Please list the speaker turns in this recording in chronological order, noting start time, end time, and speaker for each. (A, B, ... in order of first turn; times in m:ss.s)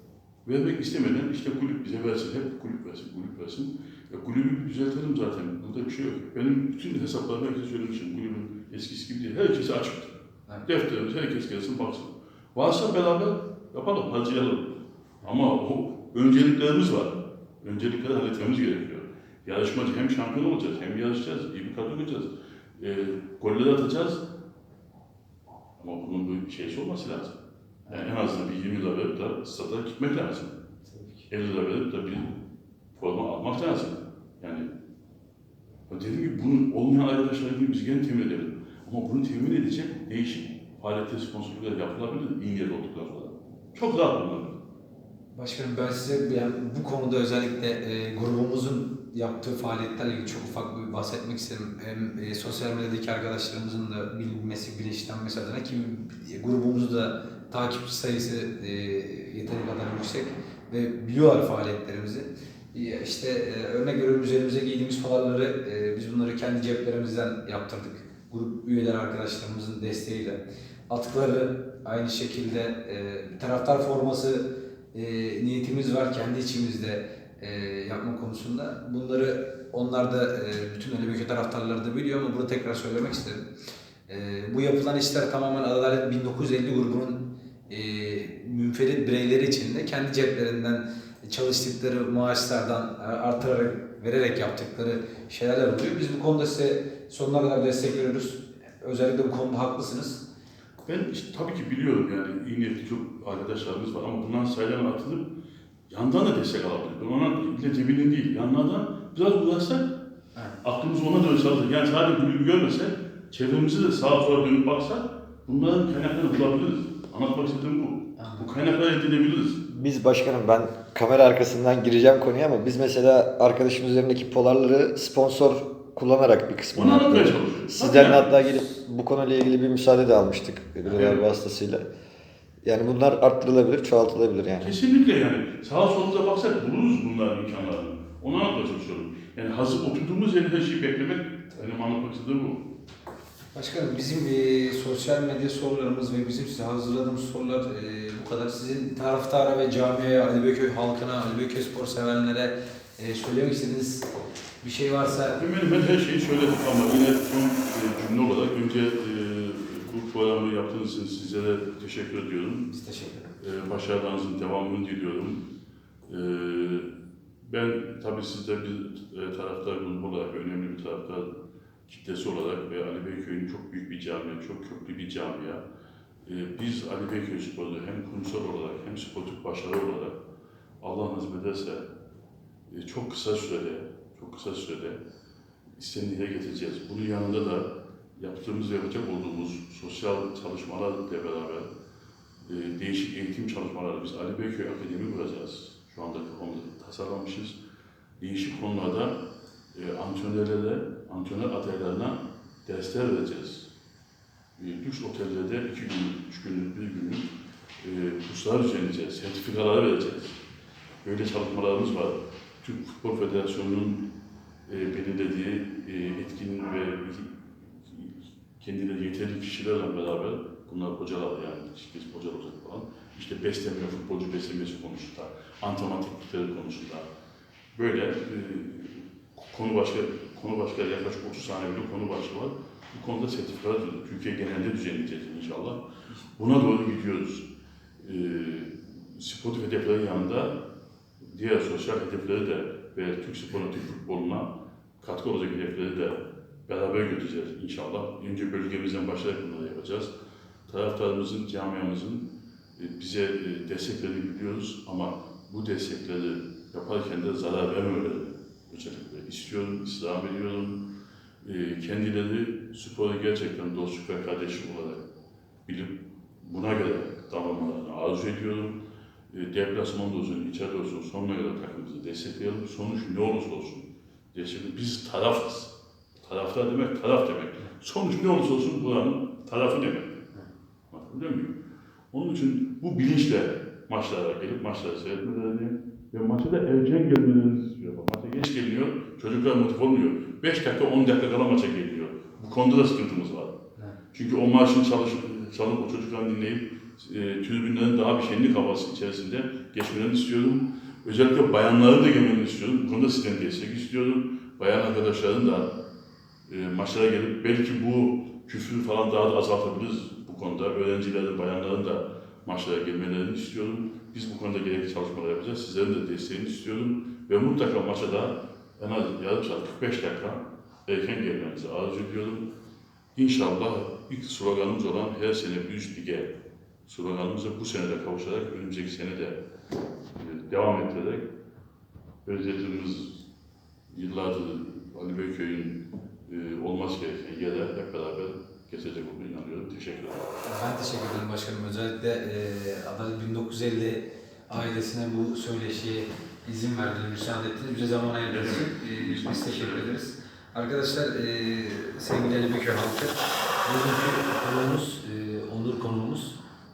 0:00.4-0:10.1 A
0:10.6-0:14.7 A
0:15.2-0:24.2 A
0:25.8-0:27.4 A
0:27.9-0:28.1 B
0:27.9-0:30.6 A
0:30.9-0:31.3 B
0:31.3-0:32.3 A
0:32.9-0:34.7 A
0:35.9-0:44.6 A
0:45.3-1:23.4 B
1:24.1-1:40.2 B
1:40.8-1:45.3 A
1:45.9-1:49.9 A
1:50.6-1:59.6 A
1:58.2-1:58.5 B
1:59.7-2:11.8 C
2:06.7-2:08.6 A
2:10.9-2:11.3 A
2:12.6-2:14.7 C
2:14.6-2:22.6 A
2:23.5-2:34.1 B
2:34.6-2:35.4 B
2:35.3-2:42.7 A
2:42.7-2:43.3 B
2:43.4-2:45.4 A
2:46.0-2:46.9 A
2:47.4-2:51.3 A
2:51.9-2:55.6 A
2:56.2-3:00.1 A
3:00.8-3:01.8 A
3:02.7-3:05.0 A
3:05.8-3:11.7 A
3:12.4-3:17.6 A
3:18.2-3:19.2 A
3:19.7-3:23.7 A
3:24.6-3:27.3 A
3:27.8-3:30.4 A
3:31.0-3:34.0 A
3:34.7-3:37.3 A
3:37.8-3:47.0 A
3:47.7-3:55.8 A
3:56.3-3:57.5 A
3:58.0-4:00.6 A
4:01.2-4:04.5 A
4:05.0-4:10.1 A
4:10.7-4:20.8 A
4:21.4-4:25.0 A
4:25.6-4:28.8 A
4:29.3-4:40.3 A
4:40.9-4:41.6 A
4:42.1-4:53.5 A
4:54.1-5:05.7 A
5:06.5-5:22.5 A
5:23.1-5:26.3 A
5:26.8-5:29.4 A
5:30.2-5:31.3 A
5:32.2-5:33.2 A
5:33.9-5:40.3 A
5:40.4-5:56.4 B
5:48.2-5:49.9 A